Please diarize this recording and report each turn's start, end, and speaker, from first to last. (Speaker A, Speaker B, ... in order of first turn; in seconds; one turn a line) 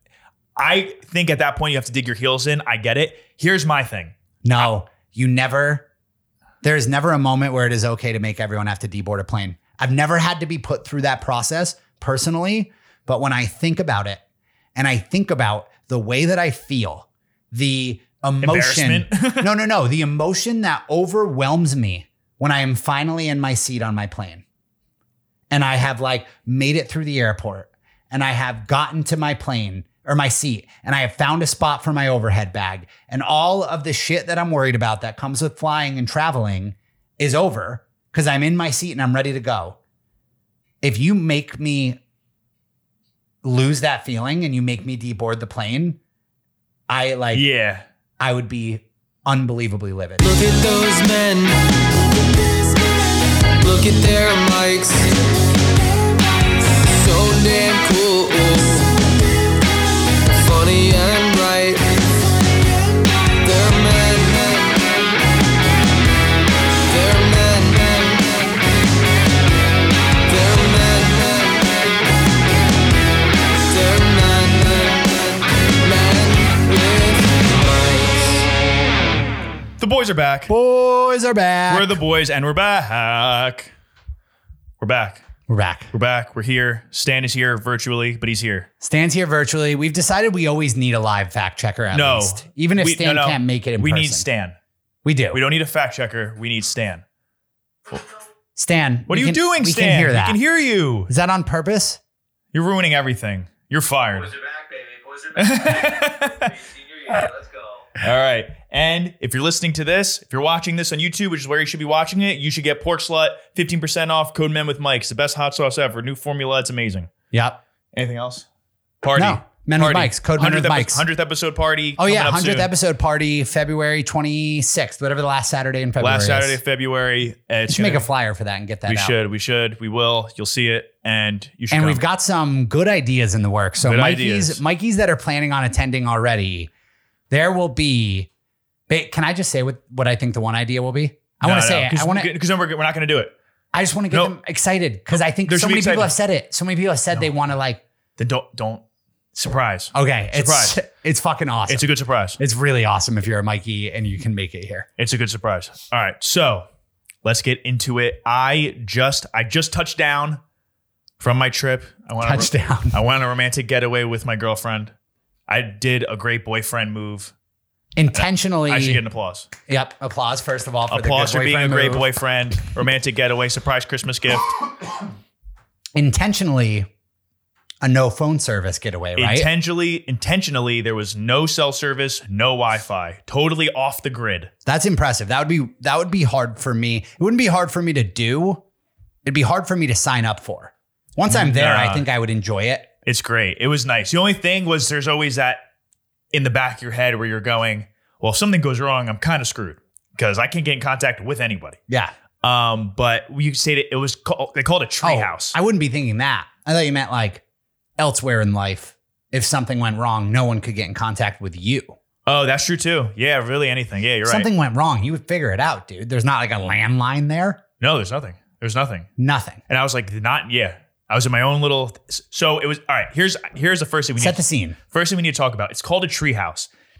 Speaker A: 0.6-4.7
Speaker B: 4.4-5.8
Speaker B: 6.6-14.2
Speaker B: 14.7-24.4
Speaker A: 18.4-19.5
Speaker B: 25.5-39.8
Speaker B: 40.8-42.0
Speaker B: 43.4-46.0
Speaker B: 46.9-47.4
Speaker A: 47.3-47.8
Speaker B: 48.2-50.2
Speaker C: 50.2-52.7
Speaker C: 53.6-55.3
Speaker C: 56.6-59.2
Speaker C: 60.3-62.4
Speaker C: 63.4-65.1
Speaker C: 66.8-68.5
Speaker C: 70.2-72.1
Speaker C: 73.7-78.5
Speaker A: 79.8-80.5
Speaker B: 80.5-81.9
Speaker A: 81.7-83.7
Speaker A: 84.8-85.2
Speaker B: 85.5-85.9
Speaker A: 85.9-88.7
Speaker B: 88.8-94.2
Speaker A: 91.9-94.5
Speaker B: 95.0-95.4
Speaker A: 95.3-97.0
Speaker B: 98.5-100.4
Speaker A: 99.1-101.1
Speaker B: 101.1-102.0
Speaker A: 102.5-104.3
Speaker D: 104.1-107.9
Speaker A: 105.3-106.5
Speaker A: 108.0-117.1
Speaker B: 117.3-117.6
Speaker A: 117.9-118.5
Speaker A: 119.0-122.7
Speaker B: 119.1-121.0
Speaker B: 122.0-126.6
Speaker A: 126.0-128.1
Speaker B: 127.7-129.2
Speaker A: 128.8-132.0
Speaker B: 131.7-136.7
Speaker A: 133.8-134.6
Speaker B: 137.3-138.3
Speaker B: 138.9-142.3
Speaker A: 141.4-143.3
Speaker B: 143.7-147.8
Speaker A: 145.2-146.1
Speaker A: 148.2-148.8
Speaker A: 149.3-150.8
Speaker B: 149.9-151.9
Speaker A: 151.7-152.4
Speaker B: 152.4-154.9
Speaker A: 155.0-156.7
Speaker A: 157.2-160.4
Speaker A: 161.2-164.9
Speaker B: 162.2-163.0
Speaker A: 165.5-167.3
Speaker B: 167.9-169.0
Speaker A: 168.1-169.5
Speaker B: 169.7-172.1
Speaker A: 170.9-174.5
Speaker B: 175.9-176.9
Speaker B: 177.8-179.5
Speaker A: 179.2-184.5
Speaker B: 184.6-188.6
Speaker B: 189.2-192.9
Speaker A: 191.3-192.1
Speaker A: 193.0-195.6
Speaker A: 196.3-201.8
Speaker A: 202.4-205.6
Speaker B: 205.0-207.4
Speaker B: 208.0-211.9
Speaker A: 212.2-214.5
Speaker B: 214.2-217.6
Speaker A: 217.8-219.1
Speaker B: 219.2-219.6
Speaker A: 219.7-224.4
Speaker B: 224.2-224.8
Speaker A: 224.9-226.7